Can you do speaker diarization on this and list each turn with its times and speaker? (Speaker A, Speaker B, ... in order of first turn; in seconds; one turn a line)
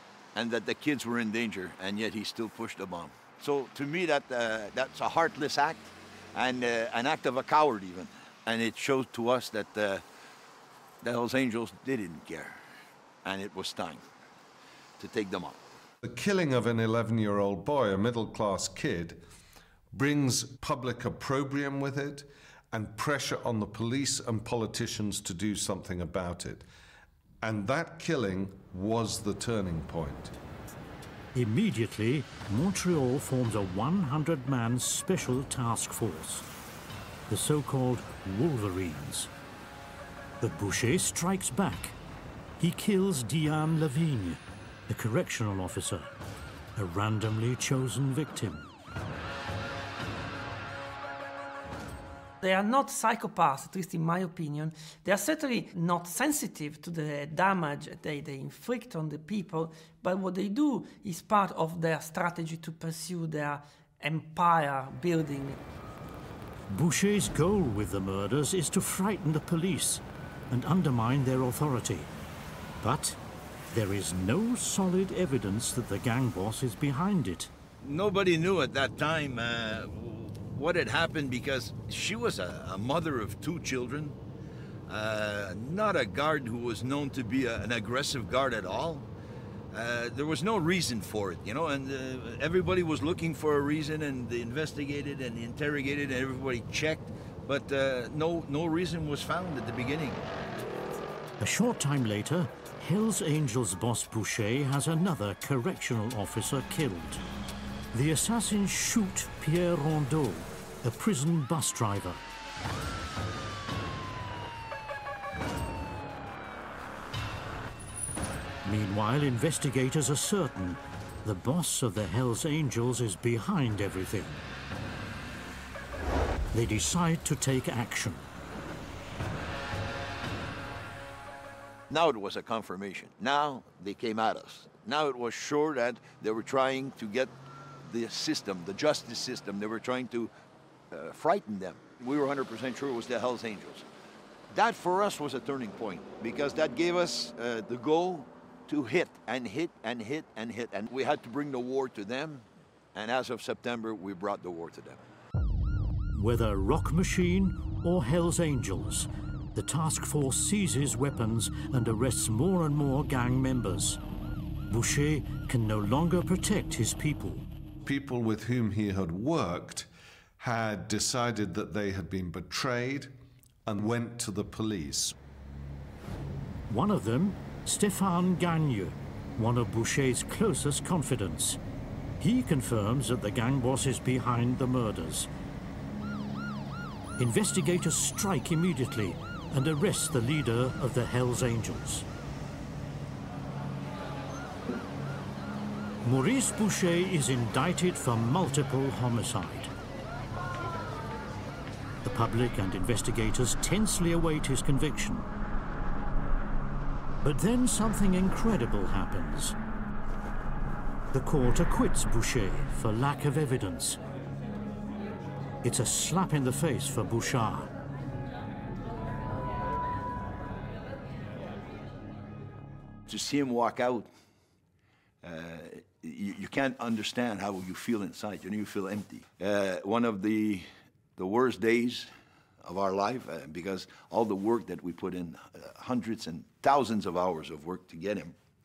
Speaker A: 0.3-10.0
Speaker A: 11.0-12.6
Speaker A: 13.2-14.0
Speaker A: 15.0-15.6
Speaker B: 16.0-19.2
Speaker B: 19.9-26.7
Speaker B: 27.4-30.3
Speaker C: 31.3-36.5
Speaker C: 37.3-39.3
Speaker C: 40.4-42.0
Speaker C: 42.6-46.1
Speaker C: 46.8-48.7
Speaker D: 52.4-65.6
Speaker C: 66.7-72.1
Speaker C: 72.8-73.2
Speaker C: 73.7-77.5
Speaker A: 77.8-84.2
Speaker A: 84.9-89.1
Speaker A: 89.7-100.3
Speaker C: 101.4-107.2
Speaker C: 107.9-112.2
Speaker C: 118.6-124.4
Speaker C: 126.5-128.3
Speaker A: 131.9-140.3
Speaker A: 140.9-143.8
Speaker A: 144.5-155.0
Speaker C: 156.1-164.0
Speaker C: 164.7-167.5
Speaker B: 167.8-173.1
Speaker B: 173.7-175.2
Speaker C: 176.7-181.6
Speaker C: 182.2-185.3
Speaker C: 187.2-192.1
Speaker C: 196.0-199.7
Speaker C: 202.0-205.3
Speaker C: 207.2-209.6
Speaker C: 211.1-214.0
Speaker C: 215.6-217.7
Speaker A: 223.1-224.1
Speaker A: 225.2-232.1
Speaker A: 232.6-238.4